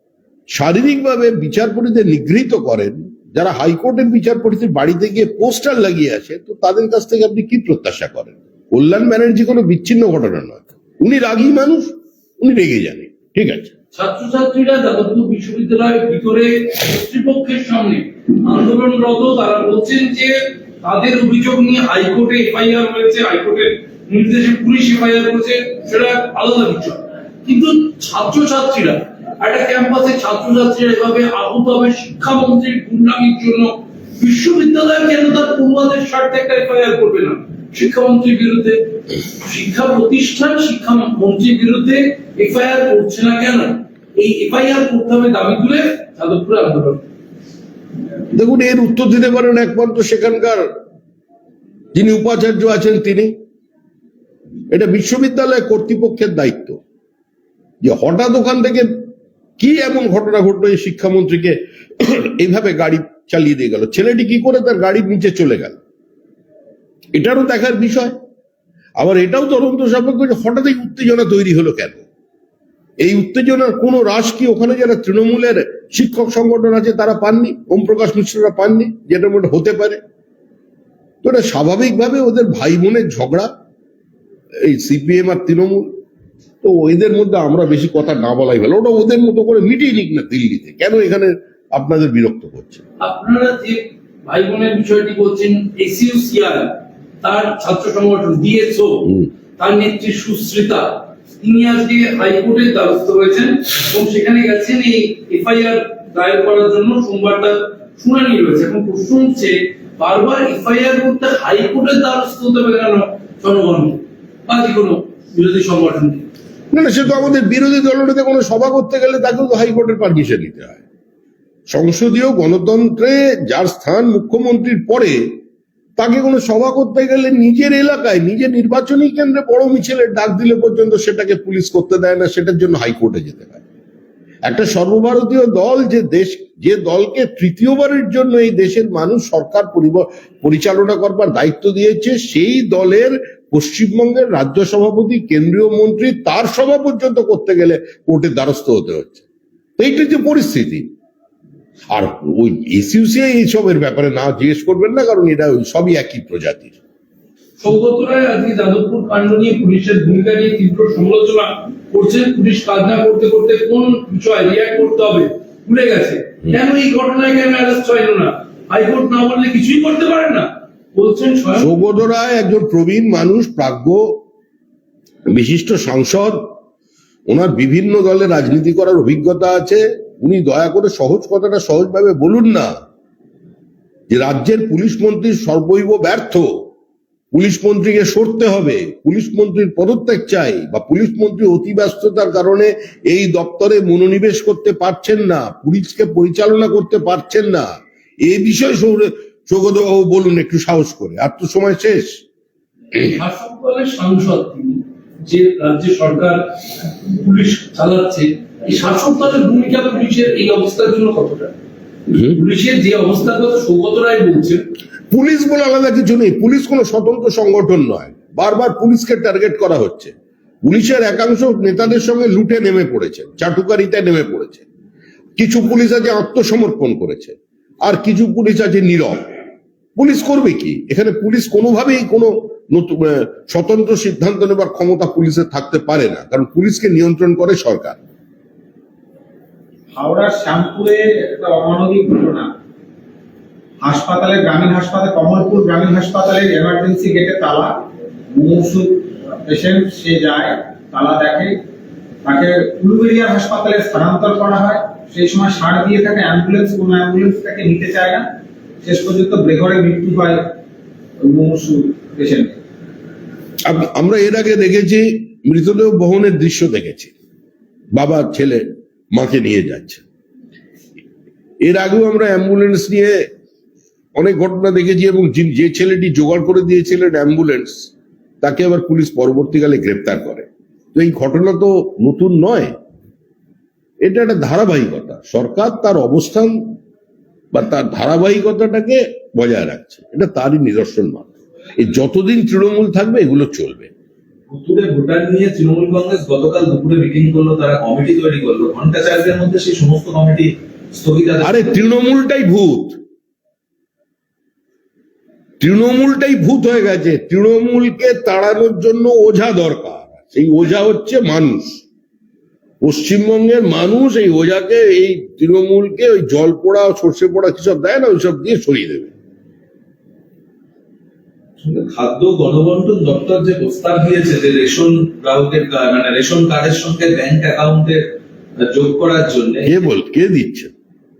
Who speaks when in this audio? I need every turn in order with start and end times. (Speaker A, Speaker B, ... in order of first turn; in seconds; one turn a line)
Speaker A: 0.5-13.7
Speaker B: 13.9-47.0
Speaker A: 48.3-50.7
Speaker A: 51.9-53.4
Speaker A: 54.7-56.8
Speaker A: 57.8-65.8
Speaker A: 67.2-68.2
Speaker A: 69.0-72.0
Speaker A: 73.0-80.0
Speaker A: 81.2-83.5
Speaker A: 84.6-85.9
Speaker A: 86.6-92.8
Speaker B: 93.0-116.3
Speaker A: 116.7-120.8
Speaker A: 121.7-125.4
Speaker A: 126.0-133.6
Speaker A: 134.5-149.2
Speaker A: 149.8-150.9
Speaker A: 151.9-156.8
Speaker B: 157.6-171.7
Speaker A: 171.6-174.2
Speaker A: 175.3-176.5
Speaker A: 177.3-182.7
Speaker A: 184.1-186.7
Speaker A: 187.3-202.2
Speaker B: 202.9-211.5
Speaker B: 212.2-214.6
Speaker A: 215.1-220.1
Speaker A: 220.7-224.7
Speaker A: 225.4-229.3
Speaker A: 230.0-238.0
Speaker C: 239.9-242.5
Speaker C: 243.8-251.6
Speaker C: 252.2-258.3
Speaker C: 258.8-260.5
Speaker C: 261.2-262.6
Speaker A: 263.7-267.1
Speaker A: 267.9-270.0
Speaker A: 271.6-273.2
Speaker A: 274.2-277.9
Speaker A: 278.4-282.8
Speaker A: 284.0-286.8
Speaker A: 287.5-293.9
Speaker D: 294.5-301.7
Speaker A: 301.4-303.0
Speaker A: 305.6-311.8
Speaker A: 312.8-319.1
Speaker D: 321.6-329.8
Speaker A: 329.7-330.7